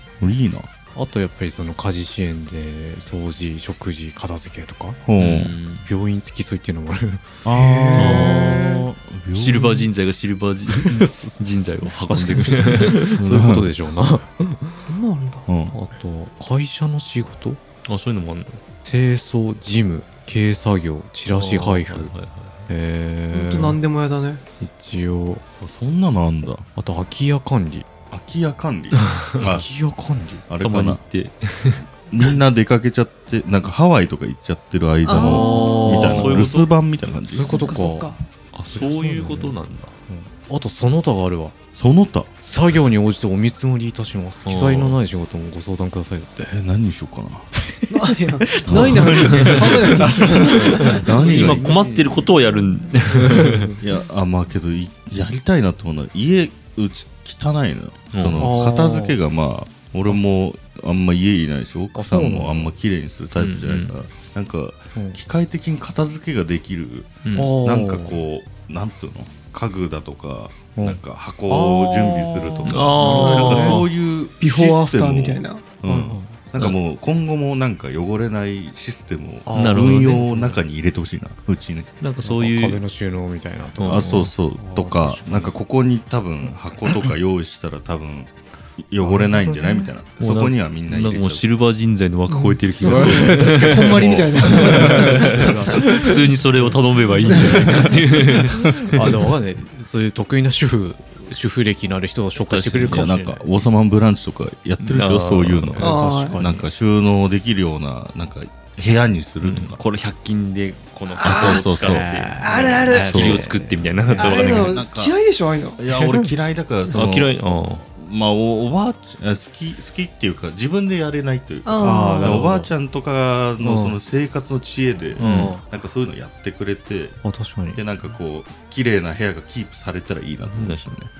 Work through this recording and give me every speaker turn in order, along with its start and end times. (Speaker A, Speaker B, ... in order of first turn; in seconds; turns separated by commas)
Speaker A: 0.2-0.7, Speaker B: 0.9-5.0, Speaker A: 5.1-5.5, Speaker C: 5.2-5.9, Speaker B: 5.7-8.7, Speaker A: 7.5-9.9, Speaker D: 7.5-8.8, Speaker C: 8.0-8.8, Speaker C: 9.3-13.2, Speaker B: 10.7-11.4, Speaker B: 12.0-14.8, Speaker A: 13.2-13.7, Speaker D: 14.8-15.5, Speaker A: 15.5-15.8, Speaker B: 15.7-17.6, Speaker C: 17.9-18.6, Speaker B: 18.9-22.1, Speaker C: 21.3-22.7, Speaker B: 22.7-23.8, Speaker D: 23.3-24.4, Speaker B: 24.6-25.4, Speaker A: 25.6-26.6, Speaker B: 26.8-27.9, Speaker A: 28.1-29.7, Speaker B: 29.4-30.4, Speaker A: 30.5-31.0, Speaker C: 30.6-31.9, Speaker A: 32.1-37.8, Speaker D: 35.1-36.0, Speaker B: 35.2-36.5, Speaker C: 35.3-36.7, Speaker B: 37.3-39.6, Speaker D: 37.5-38.2, Speaker C: 38.5-39.9, Speaker B: 40.1-41.6, Speaker A: 41.8-42.3, Speaker B: 42.4-46.5, Speaker C: 44.5-45.0, Speaker A: 46.4-47.5, Speaker B: 47.5-52.1, Speaker D: 47.9-51.7, Speaker A: 48.6-51.8, Speaker C: 50.9-53.7, Speaker B: 53.1-53.8, Speaker A: 53.8-81.9, Speaker C: 58.1-58.5, Speaker B: 58.4-59.2, Speaker B: 62.0-62.7, Speaker C: 63.4-63.9, Speaker C: 67.2-67.6, Speaker B: 67.3-68.2, Speaker B: 70.8-73.8, Speaker C: 72.7-73.9, Speaker D: 73.2-73.8, Speaker D: 74.4-75.7, Speaker B: 75.8-76.4, Speaker B: 79.5-80.6, Speaker C: 79.5-80.3, Speaker C: 82.0-82.8, Speaker B: 82.2-85.6, Speaker C: 83.8-84.3, Speaker A: 83.8-91.5, Speaker B: 86.4-87.1, Speaker B: 89.0-89.9, Speaker C: 90.2-99.1, Speaker D: 92.3-95.9, Speaker B: 92.8-93.8, Speaker A: 93.7-95.6, Speaker B: 94.4-103.5, Speaker D: 97.2-97.6, Speaker A: 97.5-98.0, Speaker C: 102.4-103.1, Speaker A: 102.9-109.8, Speaker C: 104.8-105.8, Speaker B: 105.5-106.7, Speaker D: 105.8-106.4, Speaker C: 109.4-112.4, Speaker A: 111.2-112.2, Speaker D: 111.2-111.6, Speaker B: 111.7-114.5, Speaker D: 112.4-113.2, Speaker C: 112.9-114.8, Speaker A: 113.1-113.4, Speaker D: 114.1-115.9, Speaker A: 114.3-127.2, Speaker B: 116.0-116.3, Speaker C: 116.9-117.9, Speaker D: 121.7-122.5, Speaker B: 121.8-122.7, Speaker B: 123.6-124.0, Speaker B: 125.2-125.6, Speaker C: 125.2-125.5, Speaker B: 127.2-127.8, Speaker A: 127.7-131.1, Speaker C: 130.5-131.1